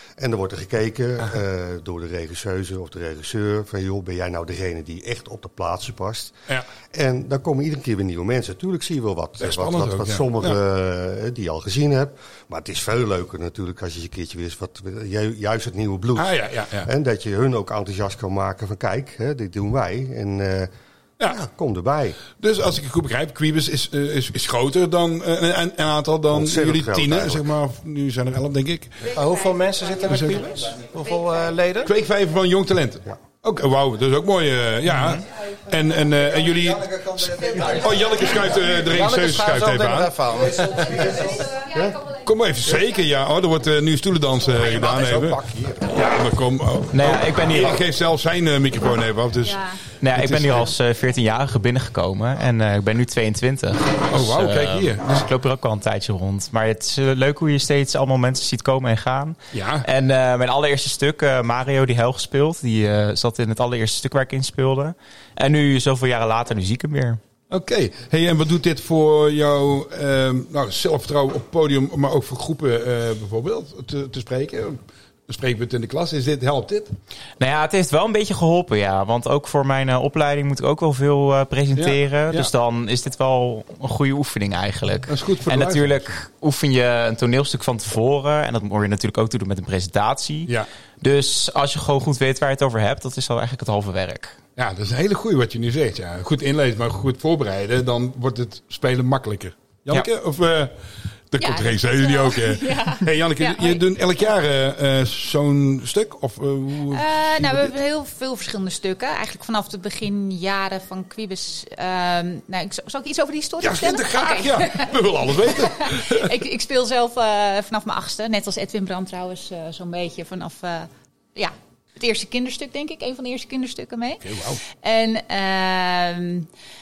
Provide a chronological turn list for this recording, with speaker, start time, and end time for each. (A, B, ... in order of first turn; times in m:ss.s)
0:00.2-0:06.4 A
0:06.9-0:20.7 A
0:09.4-0:10.6 B
0:16.2-0:16.9 B
0:21.2-0:22.2 A
0:22.2-0:29.0 B
0:26.3-0:27.4 A
0:29.0-0:31.9 C
0:31.8-0:40.2 B
0:37.4-0:41.5 C
0:41.7-0:42.0 A
0:42.2-0:50.7 B
0:44.6-0:45.8 C
0:46.9-0:47.8 D
0:49.4-0:49.8 E
0:50.0-1:07.2 D
0:54.1-0:55.2 B
0:59.5-0:59.8 B
1:07.5-1:16.9 B
1:17.4-1:34.4 D
1:21.8-1:22.5 B
1:25.1-1:26.1 B
1:34.6-1:40.7 B
1:41.3-1:47.7 B
1:41.4-1:43.8 E
1:46.9-2:06.5 E
1:53.6-1:56.3 B
2:04.2-2:04.6 B